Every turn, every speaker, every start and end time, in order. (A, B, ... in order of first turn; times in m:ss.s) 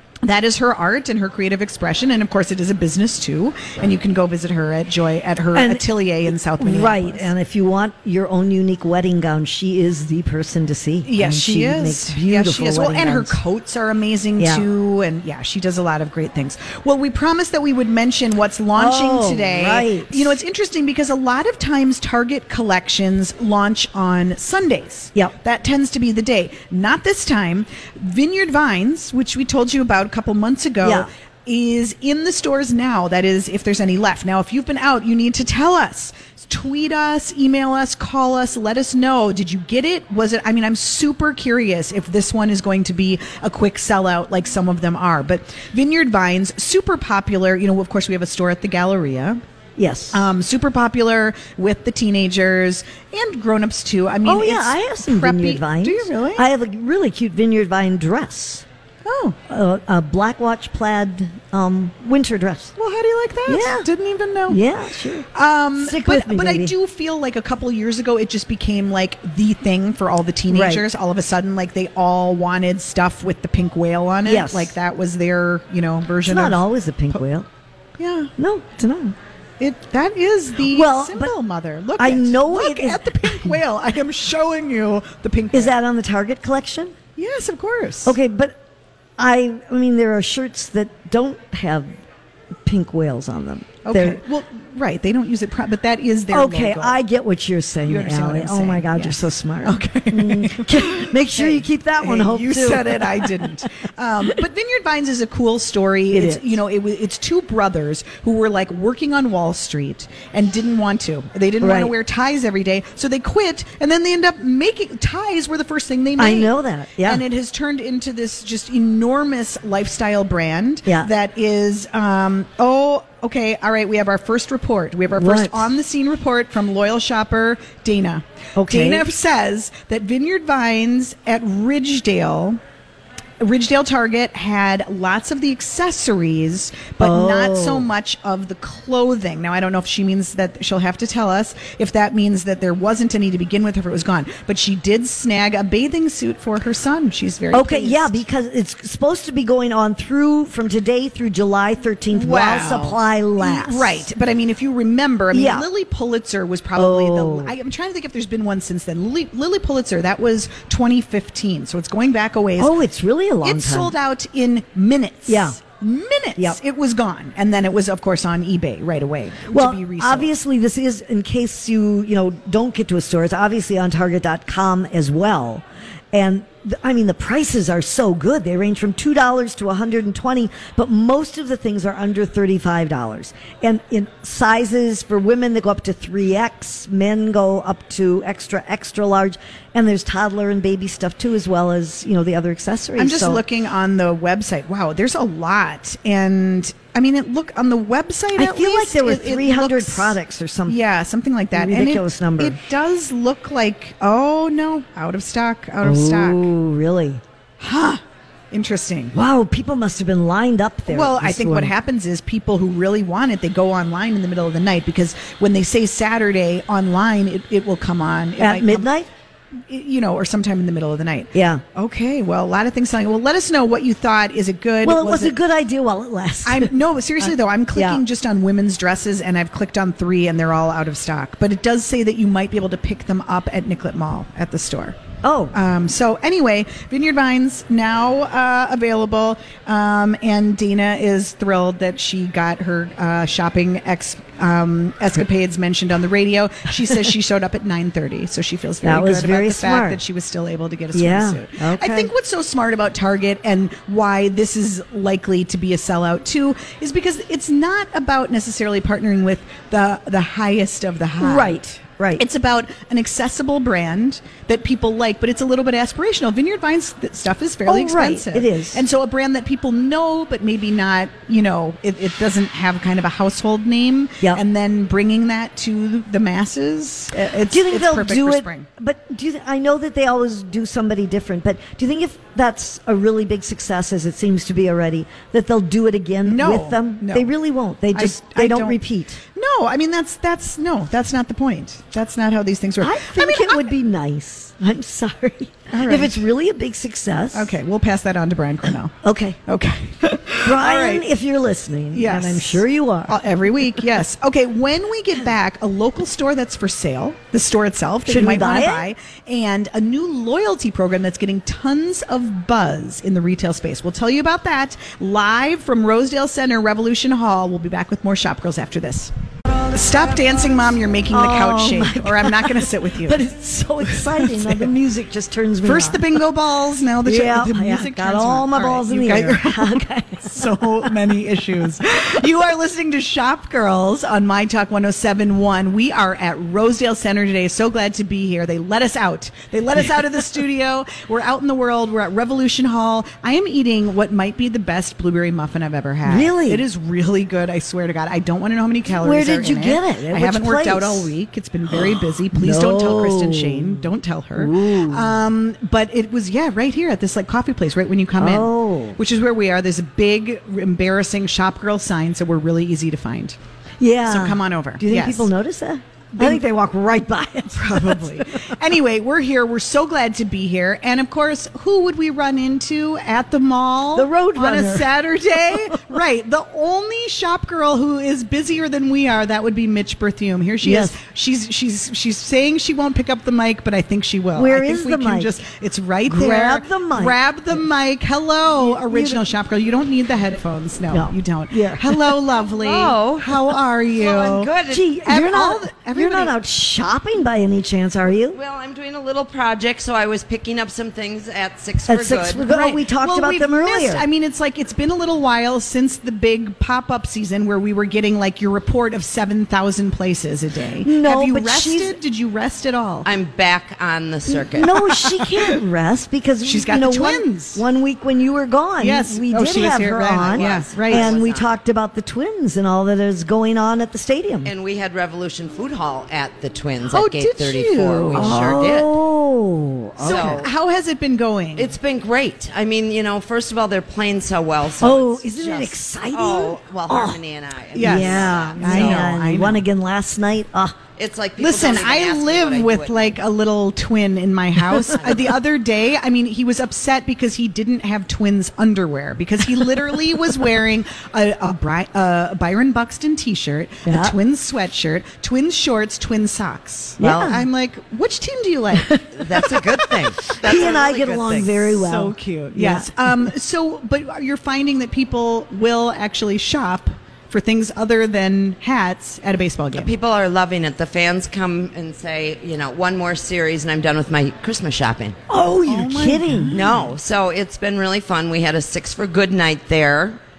0:00.2-0:07.3 A
0:05.5-0:05.9 B
0:06.6-0:13.4 B
0:11.0-0:49.4 A
0:14.4-0:14.7 B
0:18.8-0:20.3 B
0:30.8-0:31.1 B
0:49.8-0:50.2 B
0:50.1-0:56.5 A
0:54.2-0:58.6 B
0:59.0-0:59.4 A
0:59.5-1:02.7 B
1:02.8-1:04.6 A
1:03.5-1:03.9 B
1:04.5-1:05.3 B
1:05.3-1:16.6 A
1:05.8-1:06.7 B
1:10.5-1:10.8 B
1:14.2-1:14.7 B
1:16.2-1:17.5 B
1:18.0-1:18.3 A
1:18.4-1:19.2 B
1:19.6-1:25.8 A
1:20.7-1:21.3 B
1:22.0-1:23.6 B
1:25.5-1:26.9 B
1:27.2-1:28.2 A
1:28.0-1:28.6 B
1:29.2-1:31.9 B
1:32.6-1:34.2 B
1:33.8-1:37.0 A
1:36.3-1:43.5 B
1:37.9-2:12.6 A
1:46.1-1:46.6 B
1:51.6-1:51.9 B
1:56.2-1:57.2 B
2:05.2-2:05.7 B
2:08.6-2:09.1 B
2:13.4-2:28.2 A
2:17.0-2:17.9 B
2:27.5-2:34.0 B
2:32.1-2:42.8 A
2:35.3-2:35.6 B
2:36.8-2:37.5 B
2:42.6-2:43.9 B
2:43.4-2:50.3 A
2:45.3-2:45.6 B
2:49.5-3:13.4 B
3:13.0-3:26.5 A
3:18.4-3:20.8 B
3:21.6-3:22.6 B
3:25.8-3:27.2 B
3:27.6-3:29.1 A
3:29.1-3:31.7 B
3:30.9-3:38.9 A
3:38.4-3:39.1 B
3:39.6-3:45.4 A
3:41.3-3:41.6 B
3:44.8-3:46.7 B
3:46.4-3:55.0 A
3:47.7-3:48.0 B
3:55.2-3:55.6 B
3:55.5-4:21.6 A
4:08.8-4:10.0 B
4:10.9-4:12.1 B
4:21.2-4:22.2 B
4:22.2-4:38.7 A
4:27.7-4:28.8 B
4:37.2-4:49.2 B
4:46.2-4:47.3 A
4:47.9-4:53.7 A
4:52.8-4:57.5 B
4:55.7-4:56.2 A
4:57.3-4:59.0 A
4:59.0-4:59.4 B
4:59.5-5:01.1 A
5:00.4-5:03.2 B
5:01.9-5:19.1 A
5:08.1-5:08.9 B
5:19.7-5:23.2 A
5:21.1-5:26.0 B
5:23.8-5:24.7 A
5:25.6-6:03.4 A
5:27.0-5:30.7 B
5:46.0-5:46.6 B
5:49.0-5:51.1 B
5:51.7-5:55.1 B
5:58.2-5:59.0 B
6:03.8-6:08.5 B
6:04.1-6:05.3 A
6:06.2-6:06.4 A
6:07.5-6:34.5 A
6:14.0-6:14.9 B
6:15.5-6:16.0 B
6:20.6-6:21.0 B
6:24.4-6:25.3 B
6:26.1-6:27.6 B
6:28.6-6:29.2 B
6:30.9-6:32.1 B
6:32.6-6:33.3 C
6:34.0-6:34.9 C
6:34.7-6:38.4 B
6:35.0-6:36.3 A
6:38.3-6:42.5 C
6:41.9-6:44.0 B
6:42.4-6:53.1 A
6:50.8-6:52.0 B
6:53.0-6:54.8 C
6:54.3-6:55.3 A
6:54.6-7:04.5 B
6:56.4-6:57.6 A
6:58.8-7:01.2 A
7:00.2-7:01.5 C
7:04.4-7:08.9 C
7:06.9-7:08.6 A
7:08.1-7:10.4 B
7:10.0-7:10.5 C
7:10.0-7:11.7 A
7:11.6-7:19.1 C
7:14.8-7:17.2 B
7:17.8-7:19.6 A
7:17.8-7:20.8 B
7:21.0-7:23.2 C
7:21.4-7:39.6 A
7:33.9-7:34.2 B
7:37.0-7:37.4 B
7:37.0-7:37.4 C
7:38.8-7:43.3 B
7:39.1-7:41.6 C
7:40.4-7:49.9 A
7:49.8-7:55.2 C
7:55.3-7:56.6 B
7:55.7-7:56.9 A
7:56.5-8:00.2 C